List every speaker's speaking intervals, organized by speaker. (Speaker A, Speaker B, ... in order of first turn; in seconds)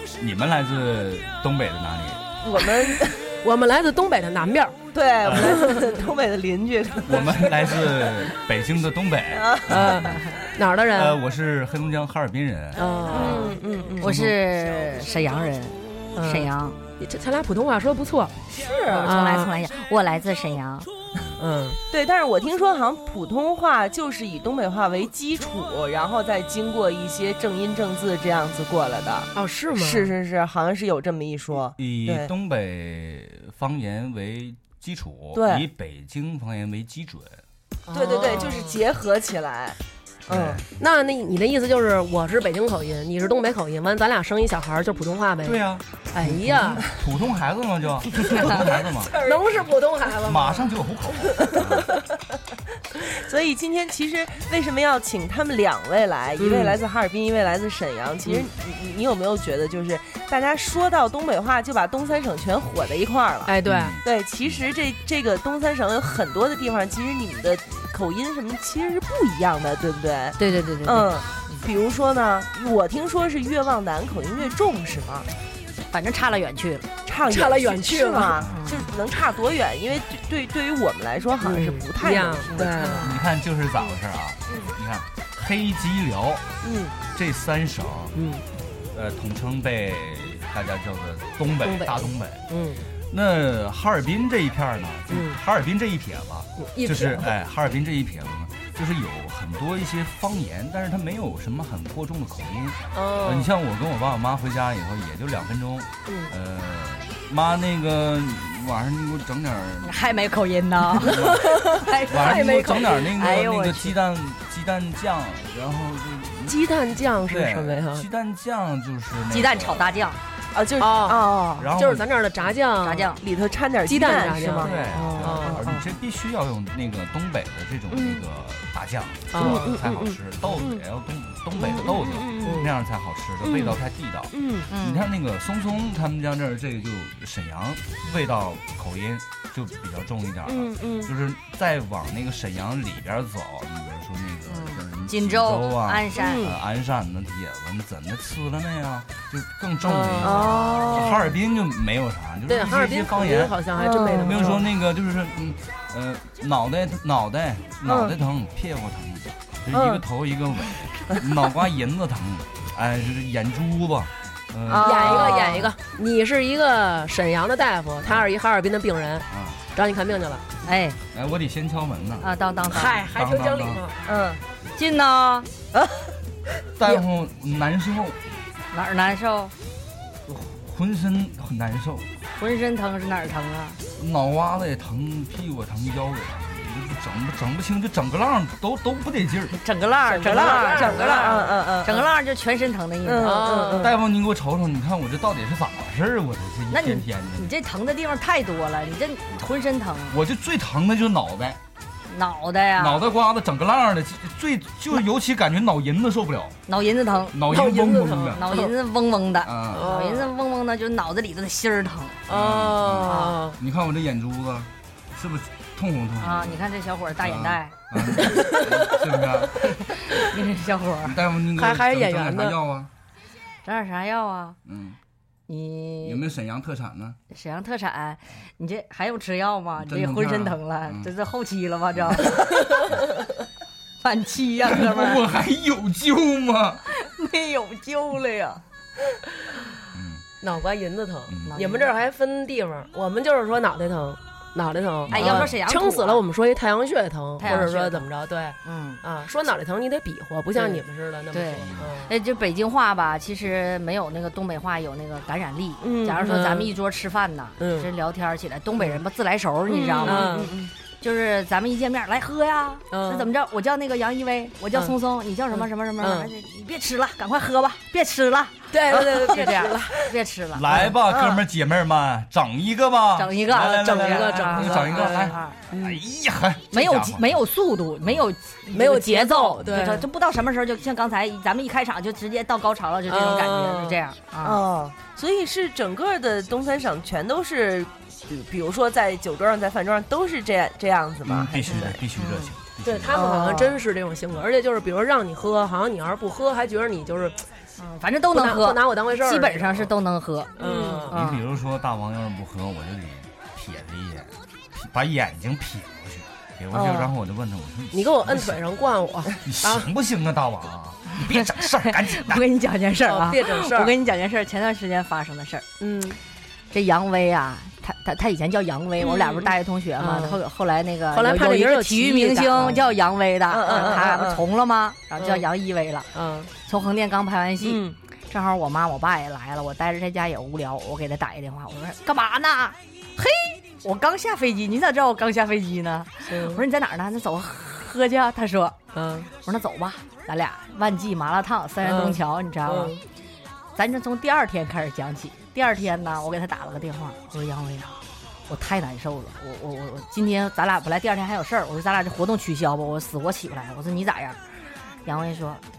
Speaker A: 0.2-2.2, 5.2-5.6, 7.0-10.2, 10.9-12.8, 14.0-14.4, 31.8-37.4, 40.3-40.6, 45.4-49.2, 50.2-52.0, 63.6-64.5, 83.0-86.4, 87.1-88.1, 88.9-92.4, 93.1-110.2, 110.9-116.6, 117.2-120.0, 121.6-122.1, 124.4-165.5, 168.0-168.3, 169.3-169.6, 171.1-172.3, 173.0-173.8, 176.8-178.2, 180.3-182.2, 183.9-189.6, 193.8-197.5, 200.1-201.6, 202.8-206.6, 207.3-208.5, 209.4-209.9, 212.3-216.7, 217.2-219.8, 221.0-222.9, 224.7-225.0, 226.0-227.2, 229.8-231.1, 231.9-232.3, 234.6-236.8, 239.9-240.2, 241.3-241.6, 245.1-245.6, 251.6-251.9, 270.5-277.4, 291.2-293.2, 301.1-308.6, 309.4-312.4
Speaker B: 2.4-3.2, 4.9-8.3, 9.3-9.7, 13.1-14.2, 18.5-19.1, 21.9-32.3, 35.3-35.6, 37.9-40.6, 48.9-49.4, 53.1-75.3, 77.0-83.1, 120.5-121.7, 123.2-125.9, 127.9-128.2, 129.4-130.8, 131.6-132.7, 133.4-133.8, 134.3-134.7, 140.4-141.1, 146.1-146.6, 150.2-151.2, 153.8-154.5, 157.8-158.1, 159.7-160.0, 164.7-165.7, 174.1-174.4, 175.7-176.1, 190.1-192.1, 193.0-193.9, 255.8-256.4, 259.7-260.7, 271.1-271.4, 284.4-292.0, 293.1-293.8, 300.6-301.0, 306.7-307.1, 319.0-319.5, 323.5-324.4, 327.6-328.0
Speaker C: 3.4-4.8, 5.4-5.9, 9.7-11.2, 12.8-13.5, 16.1-18.3, 18.9-19.5, 21.4-21.8, 29.3-30.1, 37.9-38.8, 40.8-46.8, 49.2-50.7, 51.4-51.8, 56.4-56.8, 63.5-64.0, 77.3-78.4, 81.4-83.1, 86.6-86.9, 88.1-88.4, 91.6-92.8, 95.1-95.4, 96.6-97.3, 102.9-103.5, 111.1-113.0, 116.5-118.0, 120.8-123.2, 123.8-125.6, 129.3-129.8, 132.4-132.7, 149.8-151.1, 152.5-154.6, 164.8-170.4, 172.7-173.9, 190.2-191.4, 193.2-193.9, 207.5-208.7, 209.7-210.3, 212.3-213.6, 218.2-219.0, 221.6-222.6, 240.4-252.1, 256.2-256.7, 257.6-257.9, 260.0-260.5, 262.9-263.3, 265.5-266.3, 268.7-270.0, 273.5-276.0, 278.7-280.1, 283.1-284.0, 292.8-297.4, 298.3-299.9, 300.6-301.1, 307.9-309.9, 313.0-313.9, 315.8-316.2, 320.0-320.4, 321.1-322.8, 323.7-324.0, 325.2-325.4, 326.1-326.5, 336.3-336.6, 338.9-339.3, 341.8-343.0
Speaker D: 14.0-16.8, 18.9-20.9, 70.4-71.6, 75.9-76.9, 78.4-78.9, 82.7-83.1, 109.8-113.9, 119.3-120.2, 122.8-123.2, 134.7-135.1, 144.5-146.5, 170.6-171.0, 172.2-173.0, 174.8-175.5, 178.7-179.5, 182.4-183.8, 189.5-193.8, 196.7-200.2, 202.1-203.0, 206.7-207.5, 208.3-212.2, 213.1-213.4, 216.2-217.7, 219.7-221.2, 223.6-224.6, 225.5-226.2, 227.3-232.9, 234.0-235.2, 236.9-238.6, 241.4-241.9, 245.1-246.2, 247.4-248.1, 248.6-249.0, 251.3-260.4, 261.0-270.9, 273.1-275.6, 276.7-284.6, 291.7-292.5, 297.8-301.4, 312.0-315.6, 316.7-326.1, 326.6-338.8, 339.4-342.9, 343.7-354.4, 355.0-355.6